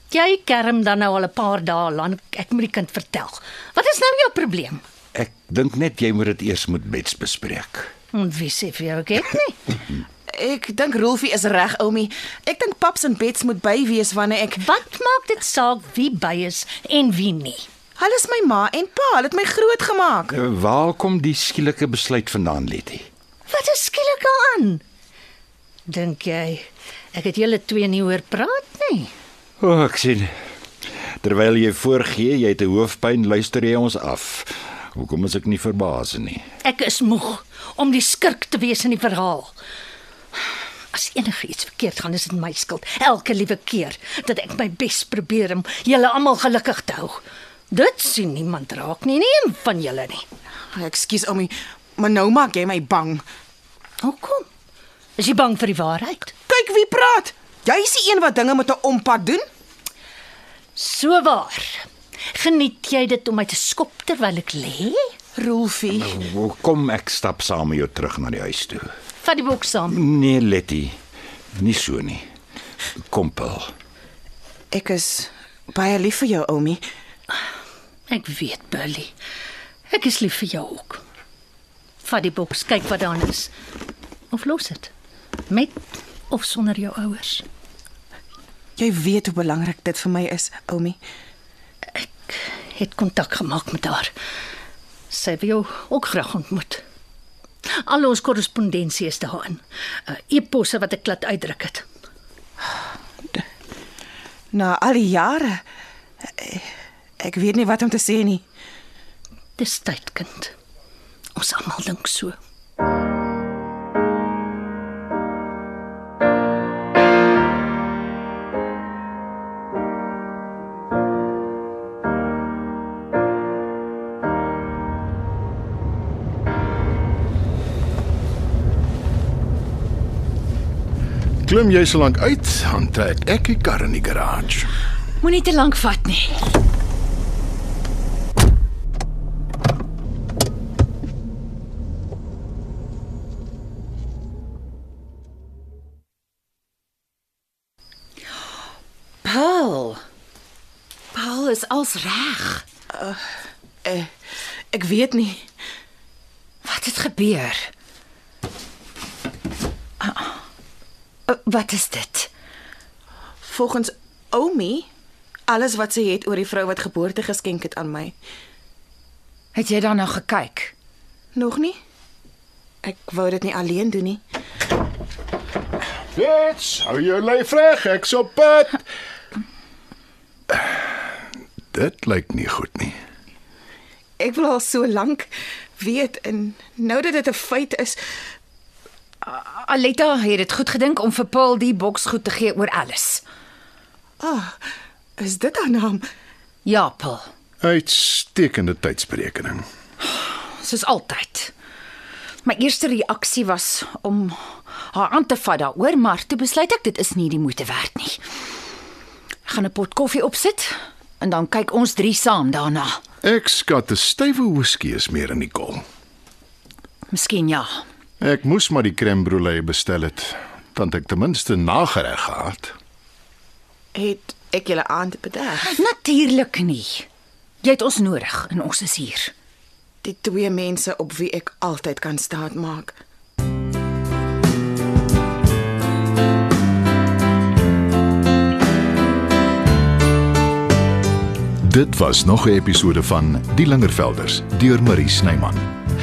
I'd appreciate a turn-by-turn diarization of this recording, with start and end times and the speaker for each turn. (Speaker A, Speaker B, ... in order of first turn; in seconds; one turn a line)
Speaker A: 0.1-4.8
Speaker B: 5.2-7.9
Speaker A: 8.1-9.8
Speaker C: 10.3-14.7
Speaker A: 14.6-17.7
Speaker C: 18.0-20.4
Speaker B: 20.3-23.1
Speaker A: 23.5-24.8
Speaker A: 25.9-29.1
Speaker B: 29.6-30.3
Speaker B: 31.2-36.4
Speaker A: 36.6-39.5
Speaker A: 40.9-47.2
Speaker A: 47.7-50.2
Speaker C: 50.7-53.2
Speaker A: 54.0-54.5
Speaker A: 55.2-56.3
Speaker C: 56.5-59.5
Speaker A: 60.8-65.0
Speaker C: 65.4-66.2
Speaker B: 65.9-68.9
Speaker A: 69.2-70.0
Speaker B: 69.9-71.0
Speaker B: 71.6-72.3
Speaker B: 73.1-73.7
Speaker C: 74.7-76.8
Speaker A: 78.1-79.1
Speaker A: 79.9-81.0
Speaker A: 82.0-83.5
Speaker A: 84.3-84.9
Speaker A: 85.5-87.4
Speaker C: 88.8-91.0
Speaker A: 92.0-94.1
Speaker A: 95.1-96.8
Speaker A: 97.8-101.8
Speaker C: 104.5-105.6
Speaker C: 106.4-106.7
Speaker C: 107.2-108.4
Speaker A: 109.6-110.5
Speaker A: 111.4-112.3
Speaker D: 131.4-134.7
Speaker E: 135.2-136.4
Speaker E: 149.2-150.0
Speaker E: 151.1-152.7
Speaker C: 152.9-153.2
Speaker C: 153.8-154.1
Speaker C: 154.7-155.4
Speaker E: 156.6-157.7
Speaker E: 160.0-160.3
Speaker E: 161.3-162.3
Speaker C: 163.4-164.9
Speaker C: 165.5-168.1
Speaker E: 169.5-170.7
Speaker C: 171.3-171.8
Speaker C: 172.8-174.2
Speaker D: 176.2-178.8
Speaker D: 181.7-183.0
Speaker C: 184.2-188.0
Speaker E: 189.2-193.2
Speaker C: 194.2-194.6
Speaker C: 195.2-196.0
Speaker E: 196.7-197.3
Speaker D: 197.6-199.6
Speaker E: 200.0-201.5
Speaker E: 202.4-208.2
Speaker E: 209.5-213.0
Speaker D: 213.2-215.8
Speaker E: 217.1-217.8
Speaker D: 218.2-222.8
Speaker C: 223.9-225.7
Speaker E: 225.6-227.1
Speaker E: 227.6-229.3
Speaker C: 230.0-232.9
Speaker D: 241.6-245.7